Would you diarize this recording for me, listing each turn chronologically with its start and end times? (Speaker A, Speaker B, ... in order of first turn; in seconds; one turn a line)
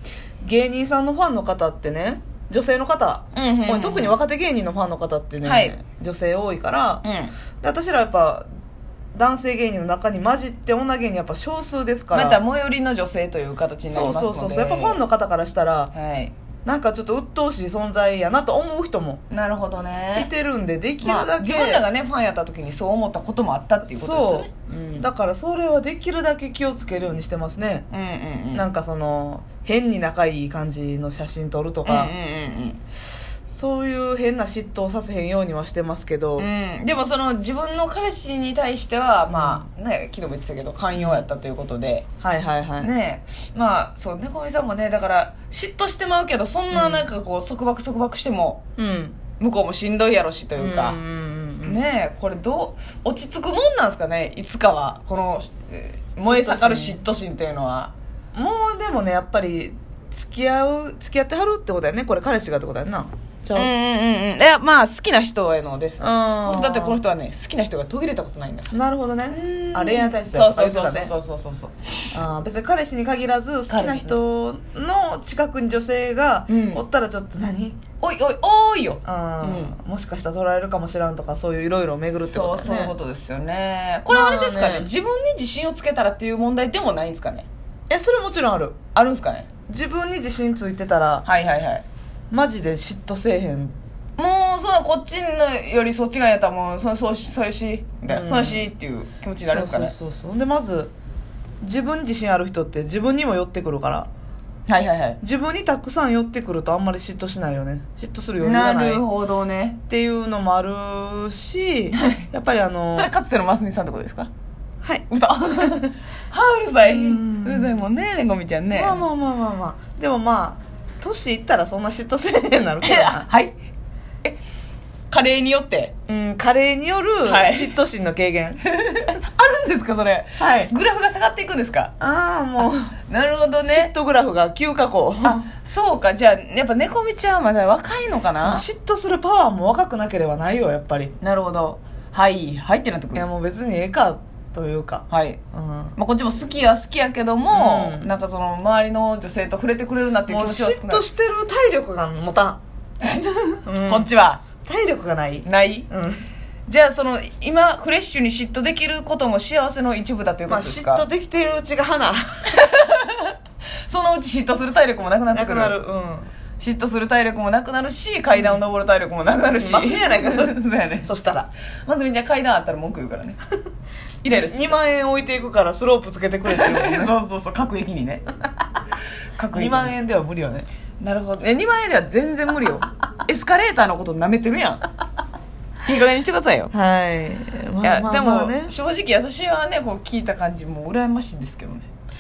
Speaker A: 0.4-7.0
Speaker B: 3.4-4.2
Speaker B: 5.4-5.8
Speaker B: 7.0-7.3
Speaker A: 7.6-8.4
Speaker A: 9.1-12.4
Speaker B: 12.1-15.0
Speaker A: 13.8-15.9
Speaker B: 15.9-16.3
Speaker A: 16.6-19.2
Speaker B: 19.3-20.3
Speaker A: 20.1-21.8
Speaker B: 21.0-25.1
Speaker A: 23.8-27.9
Speaker B: 27.9-28.6
Speaker A: 28.5-32.1
Speaker B: 31.9-32.8
Speaker A: 33.5-36.5
Speaker B: 36.4-42.1
Speaker A: 39.3-39.6
Speaker A: 40.9-41.3
Speaker A: 42.2-42.9
Speaker B: 42.8-48.6
Speaker A: 46.7-47.1
Speaker A: 48.8-49.2
Speaker B: 49.4-51.0
Speaker A: 50.6-51.8
Speaker B: 51.6-57.9
Speaker A: 56.2-57.0
Speaker A: 58.4-63.7
Speaker B: 63.5-68.8
Speaker A: 66.0-67.0
Speaker A: 68.7-71.1
Speaker B: 69.3-71.9
Speaker A: 72.1-77.8
Speaker B: 73.7-74.2
Speaker B: 76.5-76.8
Speaker B: 78.0-79.7
Speaker A: 79.0-82.9
Speaker B: 82.2-87.5
Speaker A: 84.1-84.9
Speaker A: 87.9-88.8
Speaker B: 89.0-89.5
Speaker A: 89.7-91.3
Speaker B: 91.2-91.8
Speaker A: 92.3-93.7
Speaker B: 94.2-100.0
Speaker A: 98.1-98.7
Speaker A: 99.4-100.9
Speaker A: 101.6-104.1
Speaker B: 104.7-105.2
Speaker A: 105.2-109.0
Speaker B: 108.4-109.8
Speaker A: 109.9-113.1
Speaker B: 112.9-114.3
Speaker B: 115.1-119.0
Speaker A: 115.6-115.9
Speaker A: 116.8-117.8
Speaker A: 118.7-123.3
Speaker B: 122.8-123.5
Speaker B: 125.1-125.9
Speaker A: 126.1-128.6
Speaker B: 127.2-127.7
Speaker B: 128.7-131.9
Speaker A: 130.4-130.7
Speaker A: 132.0-132.9
Speaker B: 133.1-133.9
Speaker A: 133.7-135.4
Speaker B: 135.2-138.6
Speaker A: 138.4-141.1
Speaker B: 141.2-143.2
Speaker A: 143.2-145.9
Speaker B: 145.1-145.4
Speaker B: 146.0-151.0
Speaker A: 147.5-148.1
Speaker A: 150.3-152.6
Speaker B: 153.2-154.4
Speaker A: 153.7-154.1
Speaker A: 154.6-156.2
Speaker B: 155.4-155.9
Speaker B: 156.7-161.0
Speaker A: 160.5-162.5
Speaker B: 162.5-163.3
Speaker B: 163.9-165.8
Speaker A: 165.3-166.3
Speaker B: 166.6-171.1
Speaker A: 168.3-168.6
Speaker A: 169.6-171.5
Speaker B: 171.8-173.4
Speaker B: 174.2-174.8
Speaker A: 174.3-177.2
Speaker B: 176.5-178.2
Speaker B: 179.4-180.0
Speaker A: 179.5-180.7
Speaker B: 181.0-184.8
Speaker B: 185.8-186.7
Speaker A: 186.7-188.7
Speaker B: 187.8-191.9